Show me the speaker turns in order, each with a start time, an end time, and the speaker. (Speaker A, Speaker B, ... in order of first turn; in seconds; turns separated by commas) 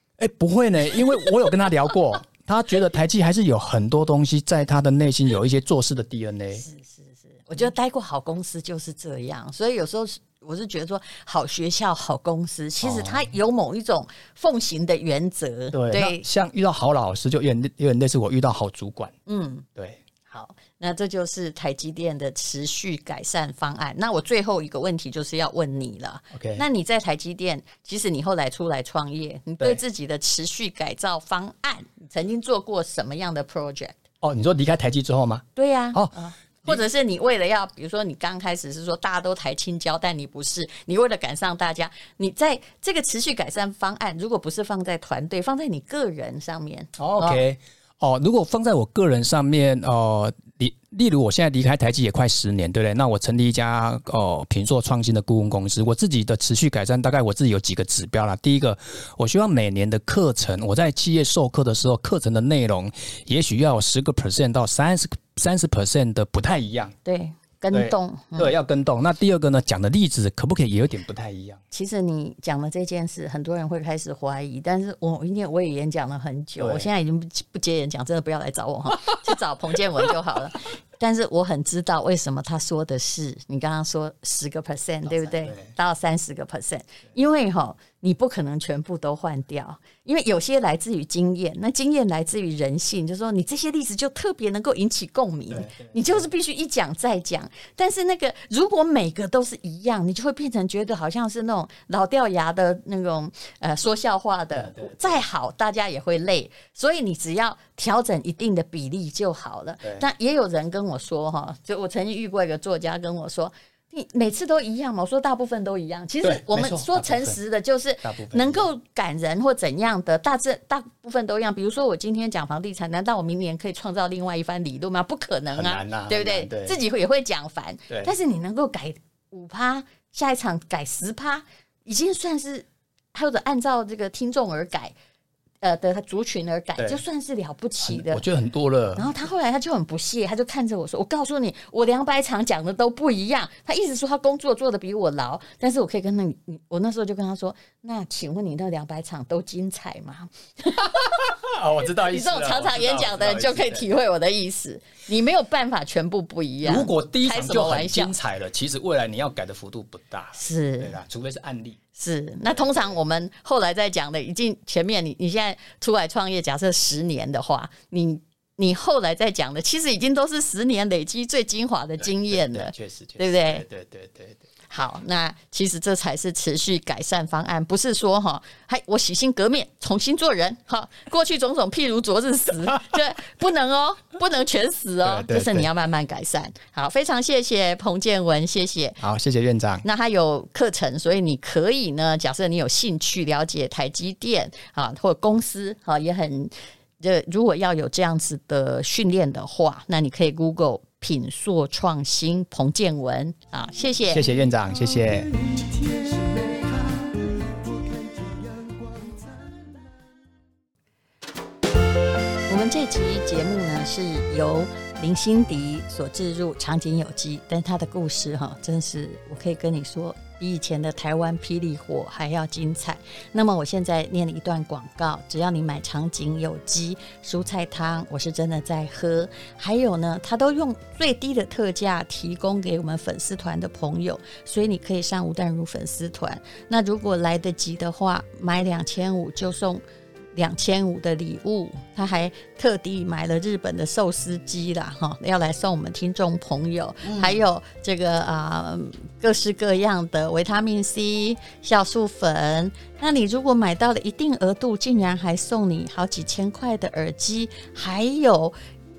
Speaker A: 0.2-6.6, Speaker B: 6.6-16.2, Speaker A: 12.8-13.3, Speaker A: 15.7-19.1, Speaker B: 19.3-19.6, Speaker B: 20.3-34.0, Speaker A: 26.3-26.6, Speaker A: 34.2-36.1, Speaker B: 35.5-47.4, Speaker A: 47.0-66.9, Speaker B: 67.0-68.5, Speaker A: 67.7-71.6, Speaker B: 71.7-134.9, Speaker A: 76.6-76.9, Speaker A: 85.0-85.7, Speaker A: 95.5-96.2, Speaker A: 104.5-105.2, Speaker A: 116.2-117.4, Speaker A: 118.0-118.7, Speaker A: 125.5-126.8, Speaker B: 135.6-138.2, Speaker A: 137.8-139.1, Speaker B: 138.9-151.3, Speaker A: 150.8-153.9, Speaker B: 152.0-158.1, Speaker A: 156.6-161.8, Speaker B: 160.3-160.9, Speaker B: 161.9-173.6, Speaker A: 162.4-163.0, Speaker A: 172.0-174.4, Speaker B: 174.7-189.0, Speaker A: 185.0-185.7, Speaker A: 189.0-189.8, Speaker B: 189.8-204.3, Speaker A: 204.1-205.3, Speaker C: 205.3-209.7, Speaker B: 212.5-239.8, Speaker B: 240.3-258.5, Speaker A: 247.1-247.3